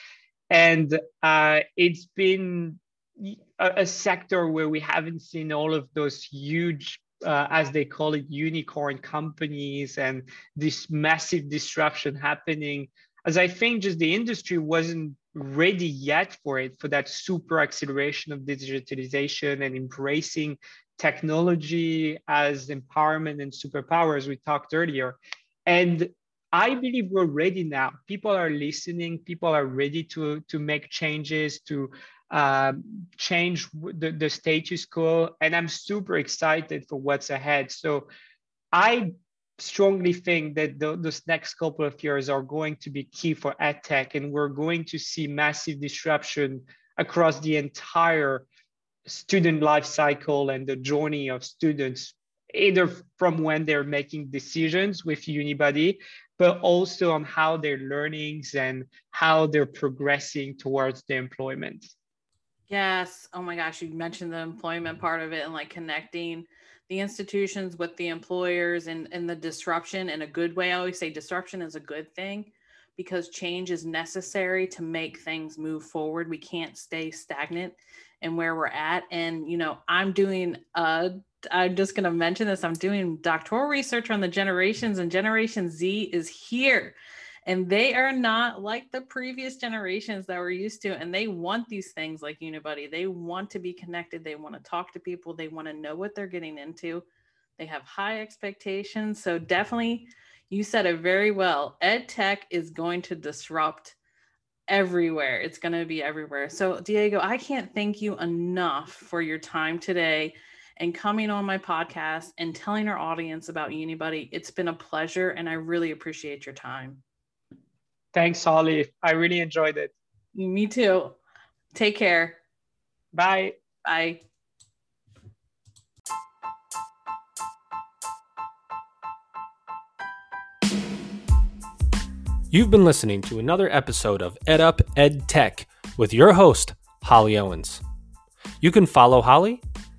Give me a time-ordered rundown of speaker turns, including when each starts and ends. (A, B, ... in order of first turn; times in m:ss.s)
0:00.5-0:38.1 A
0:38.7-0:48.5 A
0:49.1-1:01.9 A
1:02.7-1:37.0 B
1:37.6-1:44.0 B
1:44.7-1:57.0 B
1:58.1-1:59.9 A
2:00.4-2:01.2 B
2:01.7-2:02.4 B
2:03.1-2:03.6 A
2:03.8-2:04.2 B
2:12.5-2:17.8 C
2:18.6-2:19.6 C